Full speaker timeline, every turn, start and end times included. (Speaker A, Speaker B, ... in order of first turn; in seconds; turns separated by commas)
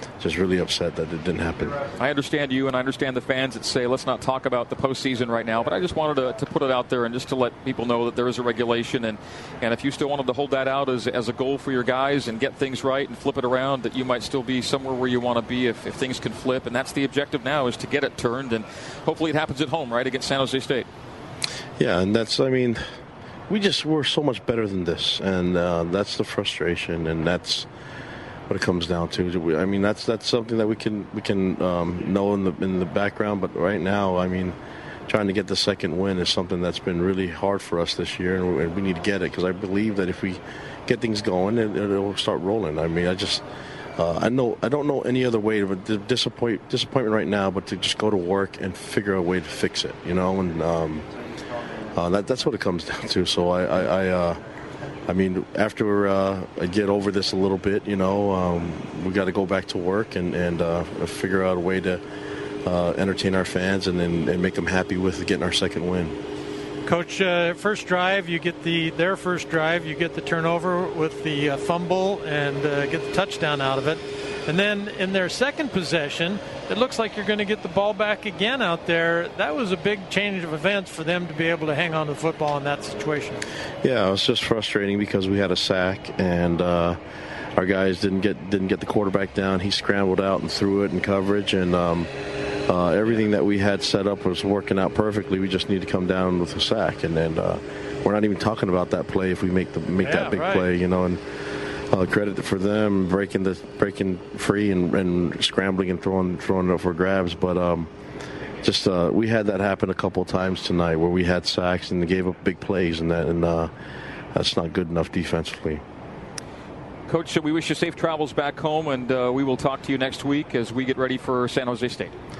Speaker A: 0.2-1.8, Speaker B: 2.0-20.9, Speaker A: 21.8-22.8, Speaker A: 23.5-27.7, Speaker A: 28.5-34.6, Speaker A: 35.1-43.4, Speaker A: 44.0-51.1, Speaker A: 51.9-54.4, Speaker A: 55.1-62.0, Speaker A: 62.6-66.2, Speaker C: 66.9-83.4, Speaker A: 83.8-87.0, Speaker A: 87.6-92.1, Speaker A: 92.7-107.9, Speaker C: 100.0-100.7, Speaker A: 108.6-113.7, Speaker A: 114.3-115.8, Speaker B: 117.1-122.1